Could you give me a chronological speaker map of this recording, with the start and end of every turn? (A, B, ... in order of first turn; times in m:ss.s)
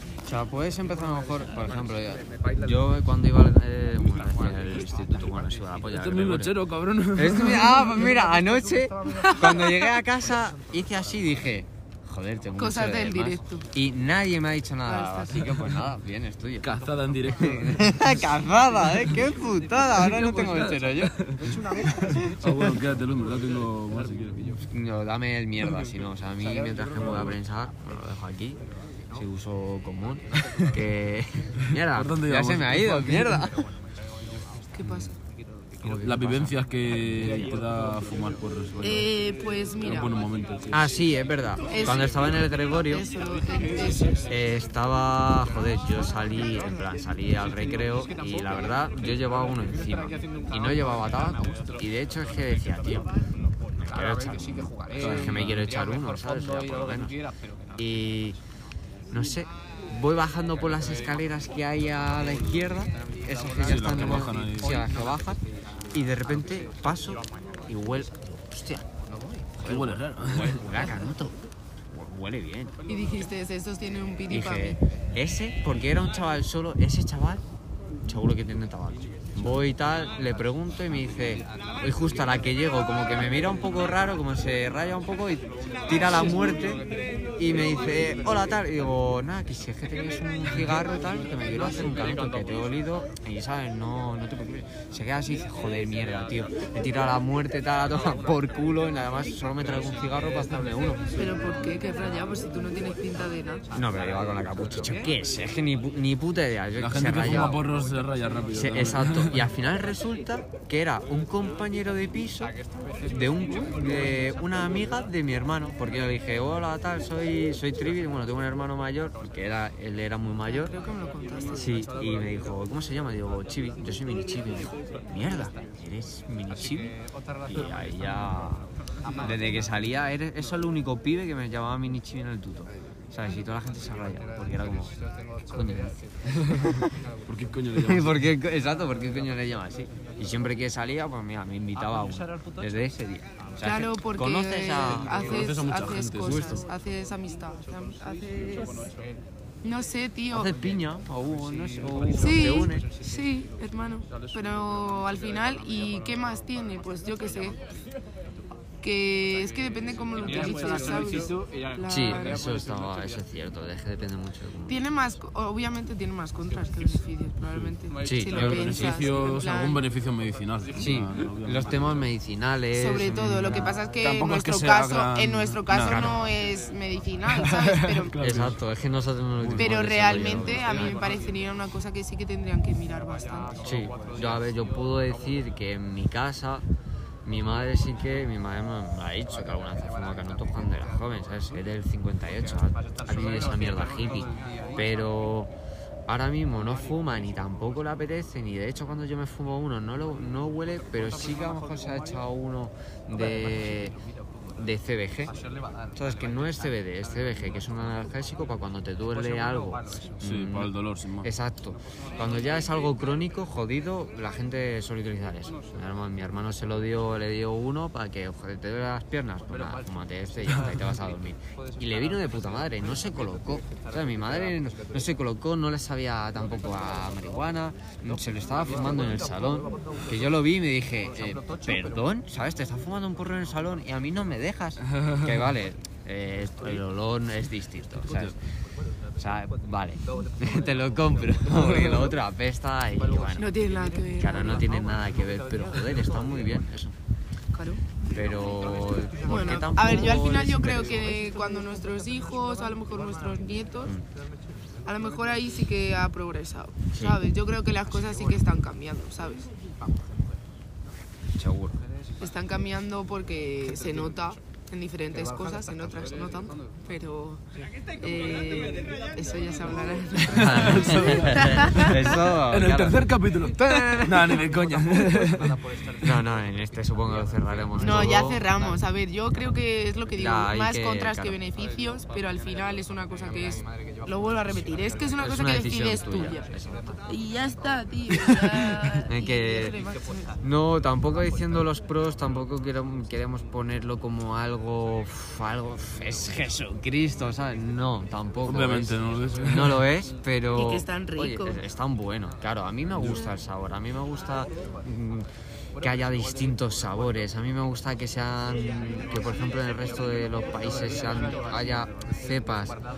0:00.2-0:06.6 A
0:05.9-0:07.9 B
0:07.1-0:16.7 A
0:09.1-0:09.9 C
0:12.6-0:13.6 C
0:14.8-0:15.6 C
0:16.6-0:18.2 B
0:17.3-0:22.7 A
0:19.9-0:24.6 B
0:24.7-0:28.6 A
0:27.0-0:27.3 B
0:29.1-0:33.7 A
0:31.7-0:33.5 B
0:34.7-0:35.1 C
0:34.8-0:35.1 A
0:35.8-0:37.3 A
0:35.8-0:39.1 B
0:38.8-0:40.2 C
0:39.8-0:40.9 B
0:40.7-0:43.1 A
0:41.7-0:44.3 C
0:44.2-0:57.2 A
0:55.0-0:55.6 B
0:57.7-0:58.4 A
0:59.1-1:08.8 A
1:03.6-1:04.8 B
1:09.5-1:11.3 A
1:09.6-1:10.7 B
1:11.9-1:12.8 A
1:12.9-1:14.8 C
1:14.3-1:17.4 A
1:18.0-1:41.2 A
1:41.1-1:43.7 C
1:43.7-1:47.7 A
1:46.8-1:49.5 B
1:48.5-2:00.7 A
2:00.4-2:01.6 C
2:01.5-2:14.9 A
2:15.4-2:16.9 A
2:16.4-2:16.7 B
2:17.2-2:18.2 B
2:17.7-2:25.2 A
2:23.6-2:28.9 C
2:25.2-2:26.6 B
2:26.2-2:26.6 A
2:29.6-2:30.5 C
2:30.3-2:33.0 A
2:32.1-2:37.7 C
2:38.8-2:42.4 C
2:41.9-2:44.8 A
2:44.6-2:49.8 C
2:48.0-2:49.0 A
2:48.3-2:52.1 B
2:50.8-2:53.7 A
2:52.7-2:58.2 C
2:53.1-2:56.1 B
2:55.8-2:56.2 A
2:57.3-2:58.6 B
2:58.2-3:01.0 A
2:59.4-2:59.7 B
2:59.6-3:03.7 C
3:03.6-3:06.6 A
3:07.2-3:15.5 A
3:16.1-3:24.0 A
3:24.6-3:25.4 A
3:25.9-3:58.4 A
3:30.2-3:31.3 B
3:40.5-3:40.9 B
3:54.9-3:55.3 B
3:59.2-4:03.6 A
4:03.3-4:04.7 C
4:04.2-4:06.9 A
4:07.5-4:07.8 C
4:08.1-4:11.2 A
4:09.2-4:13.9 C
4:14.8-4:19.5 C
4:21.3-4:21.8 A
4:22.2-4:27.4 C
4:28.0-4:32.0 C
4:30.3-4:33.0 A
4:30.4-4:35.6 B
4:33.8-4:34.4 C
4:36.0-4:38.5 A
4:37.8-4:46.4 C
4:40.1-4:41.4 A
4:45.2-4:47.0 A
4:47.1-4:50.4 C
4:48.3-4:48.9 B
4:49.1-4:49.8 A
4:50.4-5:05.2 A
4:58.4-4:59.9 B
5:00.5-5:01.6 C
5:05.8-5:12.8 A